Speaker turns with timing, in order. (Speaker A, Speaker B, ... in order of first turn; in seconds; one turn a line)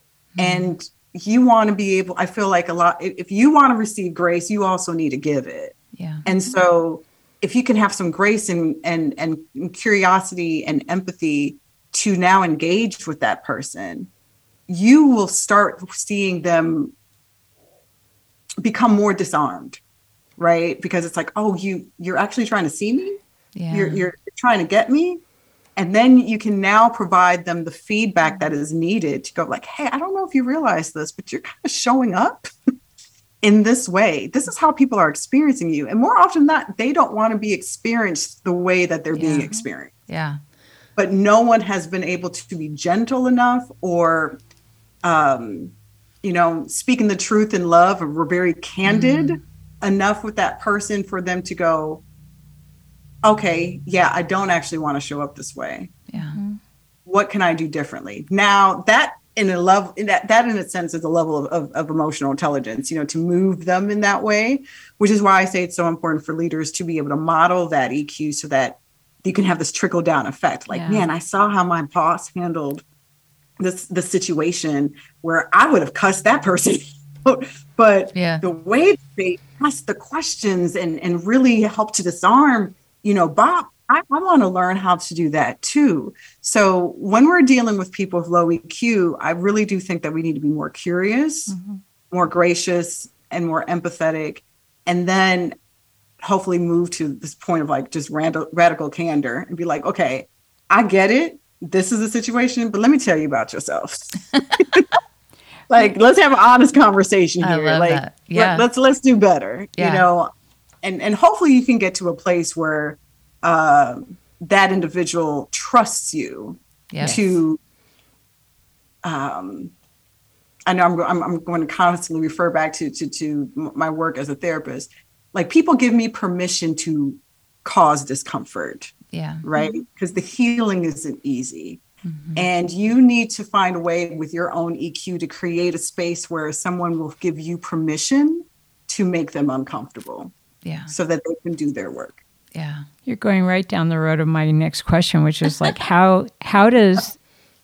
Speaker A: 0.3-0.7
Speaker B: 0.4-14.1
Speaker A: 5.9-6.3
Speaker B: 14.7-16.9
Speaker B: 18.6-19.8
Speaker B: 20.4-23.2
Speaker A: 23.6-24.1
Speaker B: 23.7-25.2
Speaker B: 25.8-32.5
Speaker B: 33.4-39.9
Speaker A: 39.1-40.4
Speaker B: 41.0-44.4
Speaker B: 45.0-52.0
Speaker A: 48.9-49.4
Speaker B: 53.2-55.9
Speaker A: 56.1-56.4
Speaker C: 56.2-56.6
Speaker B: 57.1-72.8
Speaker C: 70.7-71.0
Speaker B: 73.6-91.5
Speaker A: 78.2-78.4
Speaker C: 91.5-91.8
Speaker B: 92.1-95.5
Speaker B: 96.2-104.9
Speaker B: 105.7-110.3
Speaker A: 107.4-108.7
Speaker A: 109.8-110.0
Speaker B: 110.8-117.6
Speaker A: 116.9-117.2
Speaker C: 117.0-117.3
Speaker B: 119.0-119.7
Speaker B: 120.7-131.8
Speaker A: 129.1-129.4
Speaker A: 132.1-132.5
Speaker B: 132.3-140.3
Speaker A: 140.6-140.9
Speaker B: 140.9-142.2
Speaker A: 142.5-142.9
Speaker C: 143.1-147.2